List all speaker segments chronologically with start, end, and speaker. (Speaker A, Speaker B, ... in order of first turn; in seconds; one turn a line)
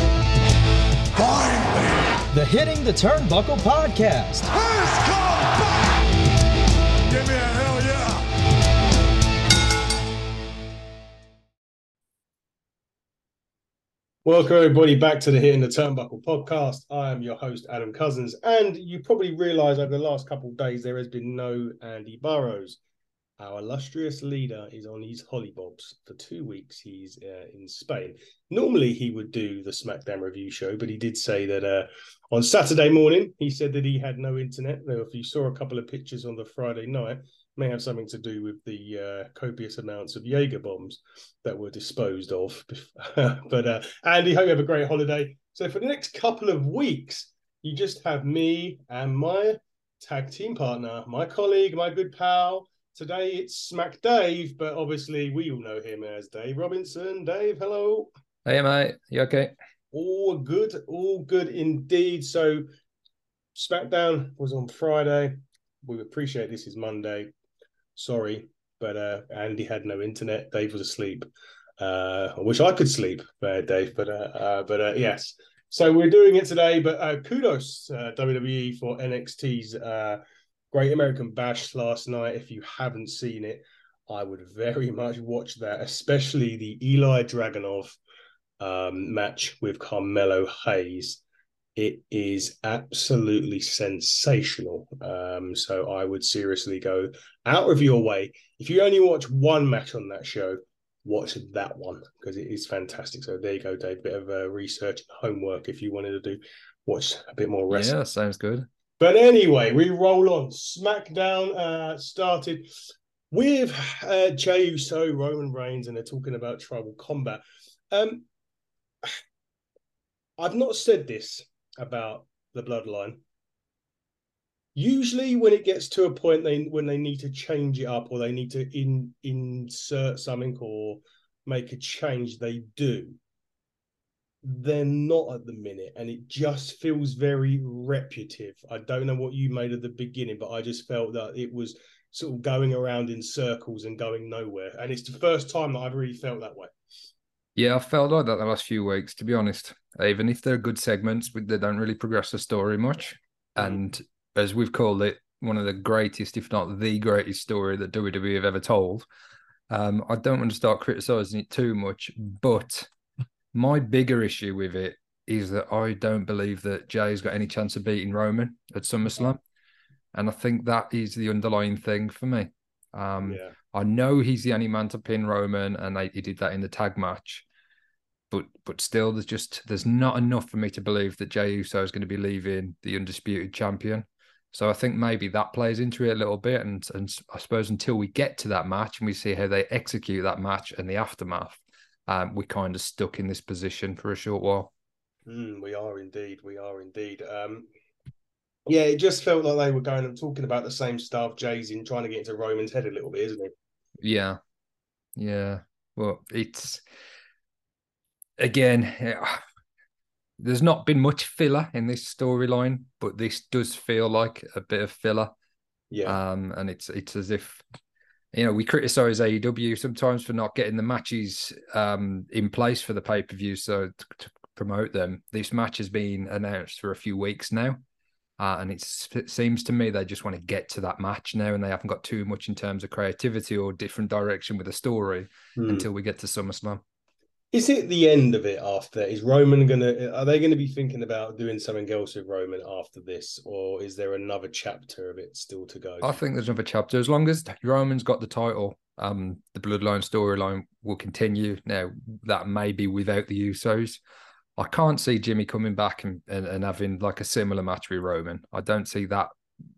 Speaker A: 1.1-2.2
Speaker B: 2.3-4.5
Speaker A: 4.5-6.0
Speaker A: 7.1-8.2
Speaker C: 14.2-22.8
Speaker C: 23.4-58.1
Speaker D: 58.4-59.5
Speaker C: 59.9-62.6
Speaker C: 63.5-67.3
Speaker C: 68.0-80.2
Speaker C: 80.7-88.0
Speaker C: 88.6-91.2
Speaker C: 91.8-107.9
Speaker D: 107.7-108.7
Speaker C: 109.0-112.7
Speaker C: 113.3-118.2
Speaker C: 120.4-123.2
Speaker C: 124.7-133.2
Speaker C: 134.4-146.7
Speaker D: 147.6-159.1
Speaker D: 159.7-162.9
Speaker D: 163.5-169.4
Speaker D: 170.1-177.4
Speaker C: 173.2-173.5
Speaker D: 178.3-194.7
Speaker C: 195.3-197.7
Speaker C: 198.7-203.5
Speaker D: 204.0-204.4
Speaker D: 205.2-206.8
Speaker D: 208.4-209.4
Speaker D: 210.4-215.3
Speaker C: 215.9-216.2
Speaker D: 216.0-217.6
Speaker D: 218.3-227.8
Speaker D: 228.4-236.8
Speaker C: 235.6-235.9
Speaker C: 237.5-246.2
Speaker D: 246.0-254.0
Speaker D: 254.6-259.3